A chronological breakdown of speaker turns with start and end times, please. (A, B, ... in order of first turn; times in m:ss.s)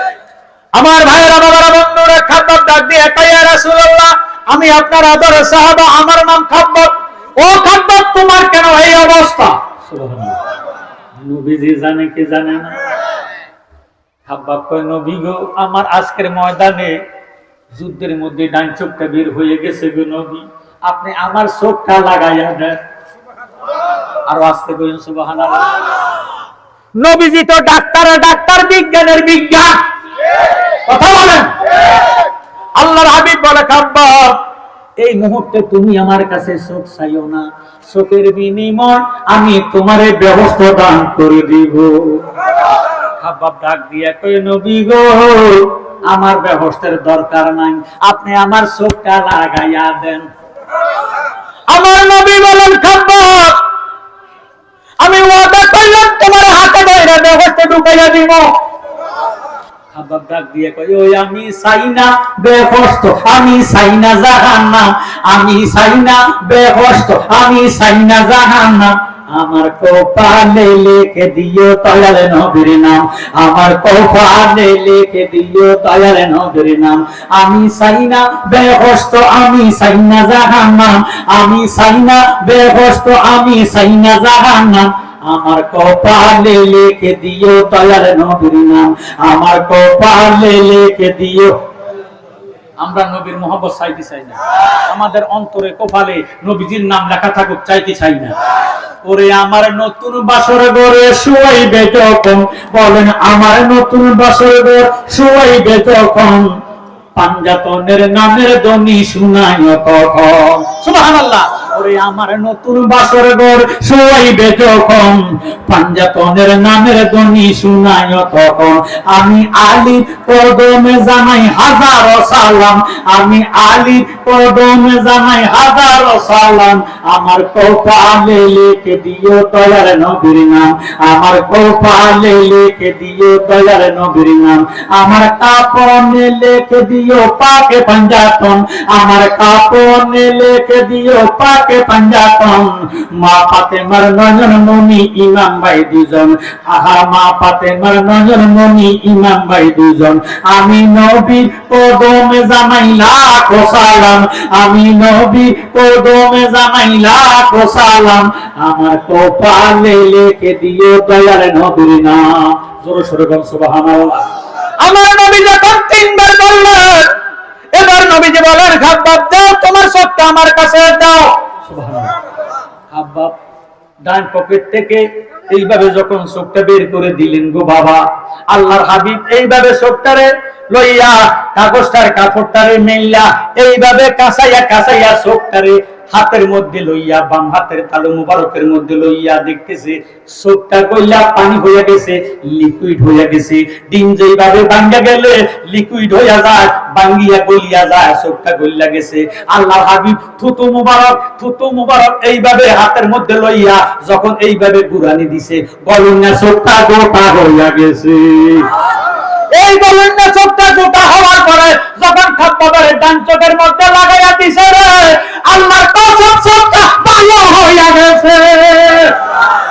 0:00.8-0:10.4 A
0:11.2-0:12.8 A
0:14.3-0:17.0 A
0:17.7-0:22.8 A
0:24.3-0:25.8 A
0:27.0-0:29.8 A
0:30.8-0:31.5 A
0:32.8-0:34.4 A
0:35.0-0:42.3 A
0:43.2-0:50.3 A
0:51.7-0:53.7 A
0:55.0-0:58.5 A
0:59.9-1:31.5 A
1:32.8-1:38.3 A
1:39.0-1:46.5 A
1:47.2-2:47.2 A
2:47.8-2:52.1 A
2:52.9-2:53.3 A
2:54.0-3:28.8 A
3:29.5-3:39.3 A